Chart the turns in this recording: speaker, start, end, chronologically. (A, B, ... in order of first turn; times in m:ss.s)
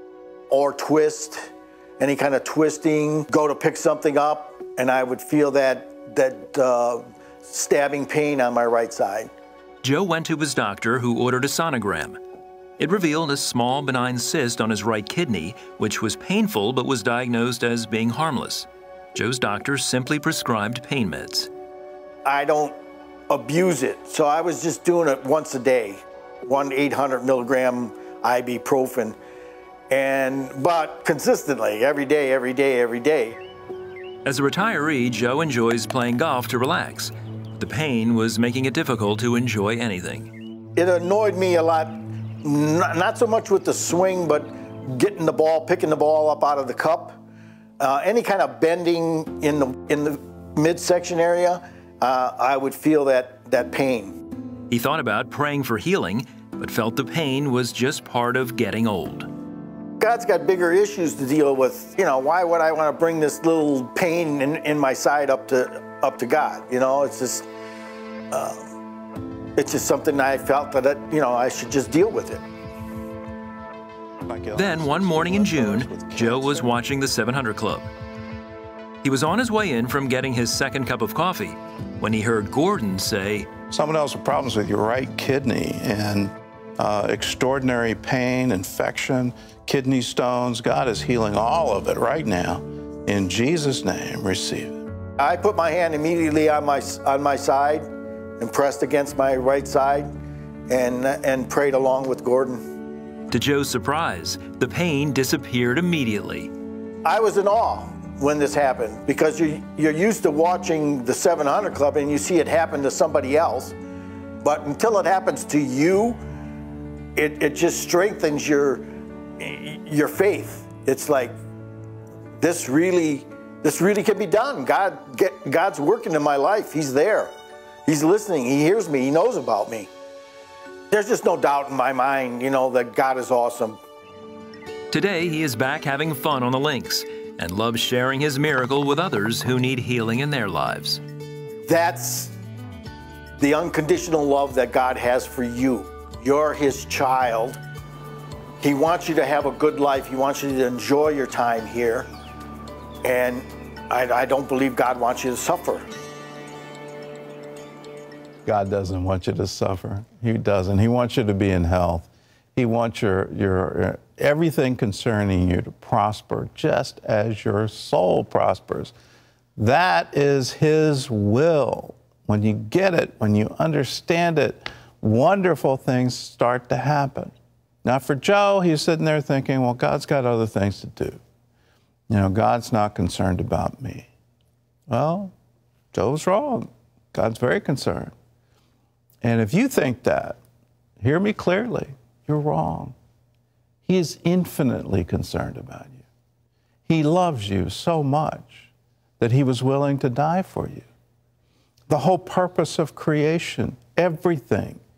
0:00.5-0:09.3 A
0:09.8-0:12.2 B
0:12.8-0:21.5 B
0:22.2-0:22.7 A
0:23.3-0:29.2 A
0:29.9-0:33.4 A
0:34.2-0:40.3 B
0:40.8-0:47.2 A
0:47.8-0:54.2 A
0:54.7-0:59.3 B
1:00.0-1:07.4 A
1:08.3-1:08.7 A
1:09.6-1:12.4 A
1:14.3-1:16.7 C
1:14.5-1:17.9 B
1:19.0-1:23.5 B
1:23.7-1:34.8 C
1:35.2-1:37.8 A
1:38.4-1:40.1 A
1:40.7-1:42.6 A
1:43.3-1:46.5 B
1:47.0-1:53.7 A
1:54.4-1:56.2 A
1:57.2-1:58.8 A
1:59.4-2:01.4 A
2:02.4-2:07.3 A
2:07.8-2:09.9 A
2:10.9-2:13.8 A
2:14.9-2:21.0 B
2:21.6-2:22.3 A
2:23.4-2:27.6 A
2:28.6-2:32.1 A
2:33.0-2:35.9 A
2:38.4-2:48.9 C
2:49.6-2:57.3 C
2:57.8-3:01.2 C
3:02.1-3:04.1 C
3:04.9-3:05.3 C
3:05.9-3:08.1 C
3:09.2-3:10.4 C
3:11.0-3:12.9 C
3:13.8-3:16.0 C
3:16.9-3:18.7 C
3:19.2-3:20.8 C
3:21.9-3:24.8 C